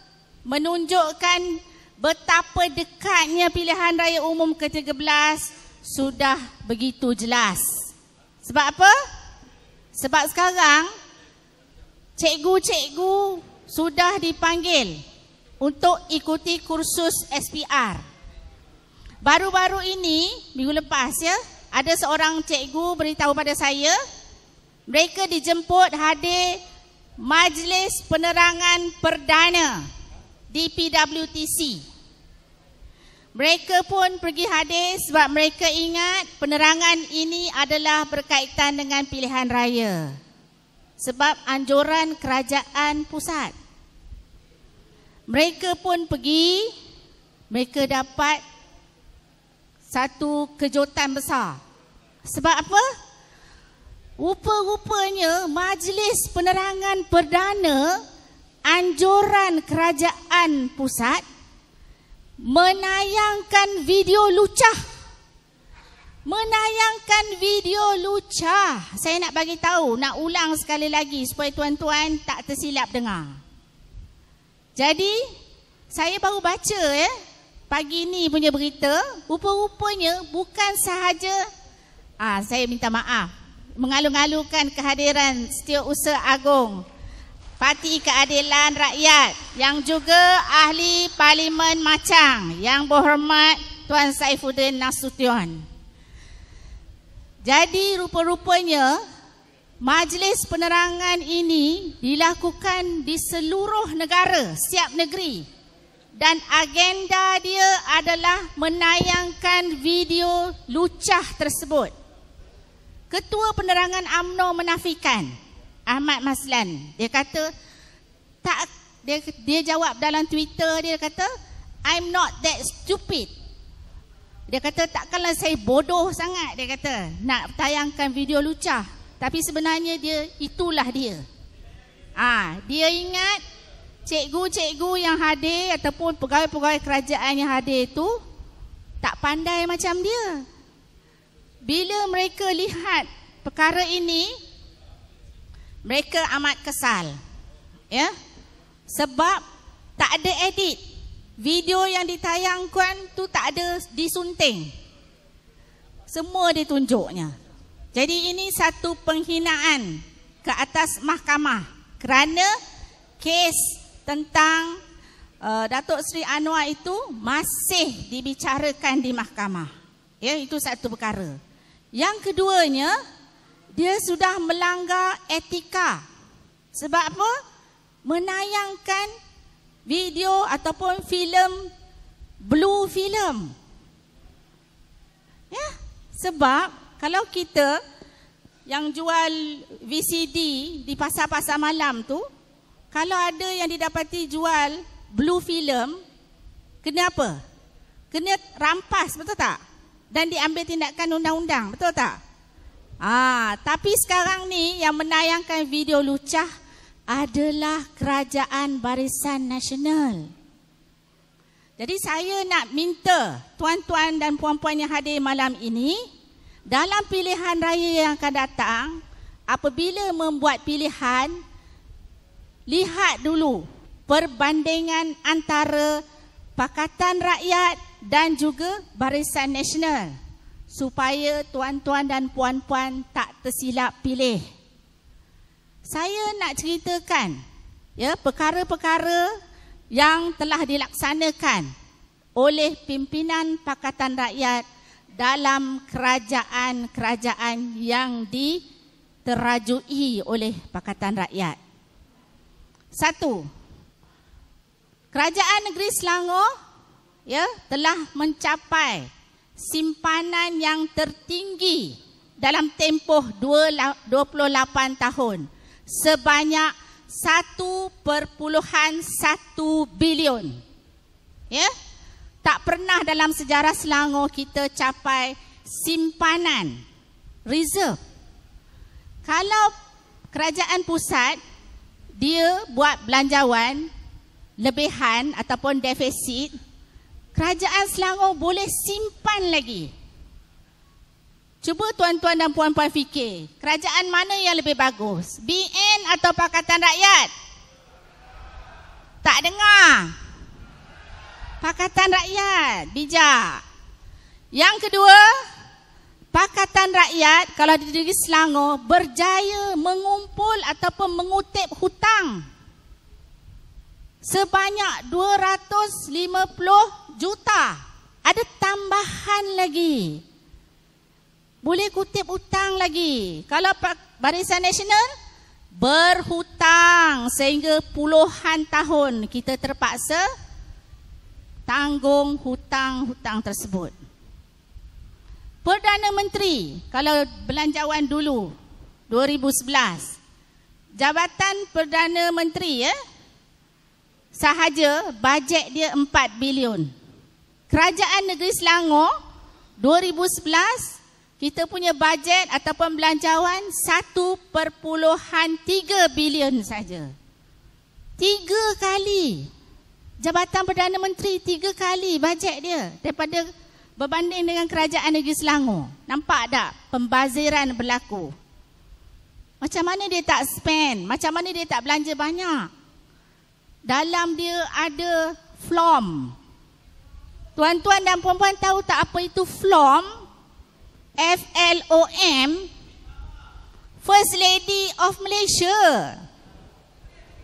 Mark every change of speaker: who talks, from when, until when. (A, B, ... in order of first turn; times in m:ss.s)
0:00.5-0:09.0 A
0:09.9-0:10.9 A
0:12.2-0:15.0 A
0:15.6-0:18.0 A
0:19.2-0:24.0 A
0:24.9-0:26.6 A
0:27.2-0:29.9 A
0:30.5-0:31.8 A
0:33.4-0:40.2 A
0:41.0-0:43.6 A
0:45.3-0:46.8 A
0:47.5-0:48.4 A
0:49.9-0:51.6 A
0:52.2-0:52.9 A
0:54.2-0:58.0 A
0:58.6-1:01.2 A
1:02.4-1:04.8 A
1:06.2-1:13.4 A
1:14.8-1:15.3 A
1:15.9-1:17.2 A
1:17.7-1:21.4 A
1:22.2-1:26.8 A
1:27.6-1:35.6 A
1:37.4-1:39.0 A
1:39.8-1:45.5 A
1:46.2-1:51.9 A
1:53.1-1:55.4 A
1:55.9-1:57.5 A
1:58.4-2:01.3 A
2:01.8-2:03.3 A
2:04.5-2:11.2 A
2:12.2-2:13.4 A
2:14.0-2:18.2 A
2:19.0-2:20.4 A
2:21.6-2:24.4 A
2:25.8-2:27.2 A
2:28.9-2:29.4 A
2:30.0-2:30.8 A
2:31.4-2:34.7 A
2:36.1-2:37.4 A
2:37.9-2:42.5 A
2:43.2-2:44.8 A
2:45.4-2:51.4 A
2:51.9-2:53.0 A
2:53.7-2:56.0 A
2:56.7-2:57.4 A
2:58.0-2:59.1 A
2:59.9-3:01.7 A
3:02.4-3:03.5 A
3:05.5-3:07.8 A
3:08.7-3:12.3 A
3:12.9-3:16.0 A
3:16.8-3:17.4 A
3:18.1-3:19.6 A
3:20.1-3:22.2 A
3:23.0-3:26.5 A
3:27.1-3:30.3 A
3:31.8-3:36.0 A
3:36.7-3:41.4 A
3:42.7-3:46.0 A
3:46.6-3:50.2 A
3:50.7-3:54.4 A
3:55.8-3:57.4 A
3:58.0-3:59.4 A
3:59.9-4:01.7 A
4:02.4-4:08.6 A
4:09.2-4:11.6 A
4:12.9-4:13.5 A
4:15.1-4:16.5 A
4:17.3-4:30.6 A
4:32.4-4:36.8 A
4:37.5-4:38.0 A
4:39.2-4:39.7 A
4:40.3-4:41.4 A
4:42.2-4:43.9 A
4:44.6-4:46.6 A
4:47.4-4:49.9 A
4:51.6-4:57.3 A
4:59.2-5:00.1 A
5:01.6-5:03.6 A
5:04.5-5:05.4 A
5:06.3-5:12.4 A
5:14.2-5:20.2 A
5:21.6-5:25.1 A
5:25.7-5:30.3 A
5:31.7-5:34.0 A
5:35.6-5:38.5 A
5:39.1-5:40.2 A
5:40.9-5:43.0 A
5:44.3-5:46.9 A
5:47.7-5:49.2 A
5:49.8-5:57.1 A
5:58.2-5:59.5 A
6:00.2-6:08.4 A
6:09.6-6:12.7 A
6:13.8-6:16.4 A
6:17.6-6:20.2 A
6:21.2-6:22.7 A
6:24.0-6:26.2 A